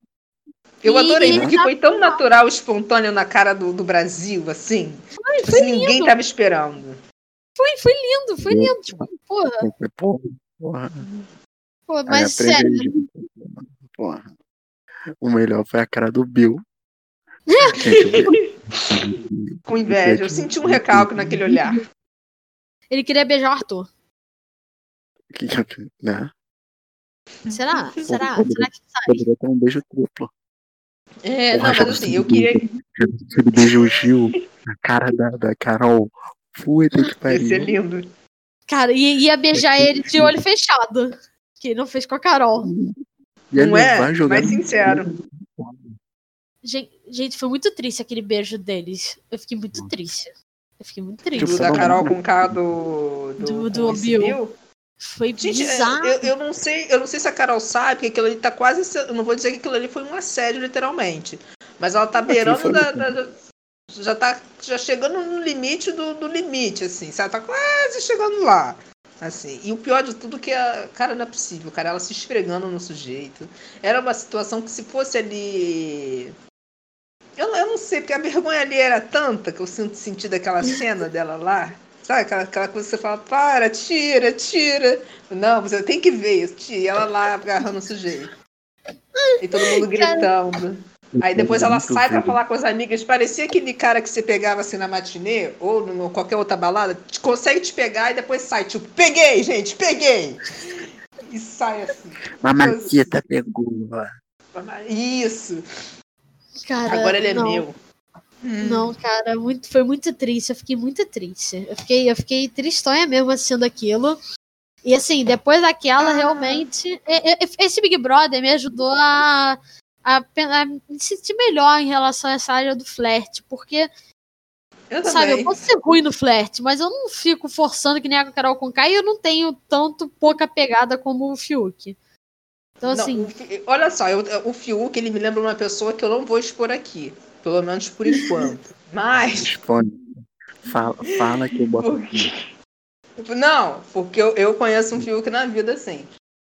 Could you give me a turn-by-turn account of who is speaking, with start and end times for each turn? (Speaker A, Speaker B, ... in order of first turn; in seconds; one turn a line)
Speaker A: 0.8-7.0
Speaker B: 0.9-2.2
Speaker B: 5.2-6.1
Speaker B: 7.6-9.6
Speaker C: 8.4-9.1
Speaker C: 9.6-11.1
Speaker B: 11.9-12.9
Speaker C: 12.1-14.3
Speaker C: 15.2-16.6
Speaker B: 17.5-17.8
Speaker C: 17.7-21.6
Speaker A: 17.7-18.4
Speaker A: 19.7-21.8
Speaker B: 22.9-23.9
Speaker C: 25.3-26.3
Speaker A: 27.5-28.1
Speaker B: 27.5-29.2
Speaker C: 28.1-30.3
Speaker A: 31.2-32.8
Speaker C: 31.5-37.8
Speaker A: 33.6-34.4
Speaker A: 37.3-38.0
Speaker B: 38.7-42.7
Speaker C: 39.5-40.4
Speaker C: 42.6-43.0
Speaker C: 43.5-46.0
Speaker A: 43.5-45.1
Speaker B: 46.6-52.0
Speaker C: 51.4-52.7
Speaker A: 51.4-54.6
Speaker B: 53.4-54.4
Speaker B: 55.0-56.3
Speaker A: 55.4-63.4
Speaker C: 62.3-63.1
Speaker A: 63.9-76.3
Speaker A: 77.4-88.3
Speaker B: 89.2-90.3
Speaker A: 89.4-103.0
Speaker C: 91.2-92.4
Speaker C: 102.4-104.1
Speaker A: 104.5-105.6
Speaker B: 106.7-107.7
Speaker A: 106.9-107.8
Speaker A: 108.4-108.9
Speaker B: 108.6-114.2
Speaker B: 114.8-123.9
Speaker A: 116.0-116.6
Speaker A: 124.9-125.5
Speaker B: 125.0-132.0
Speaker B: 132.8-133.3
Speaker A: 132.9-139.5
Speaker C: 139.4-142.3
Speaker A: 141.8-142.5
Speaker A: 143.2-146.1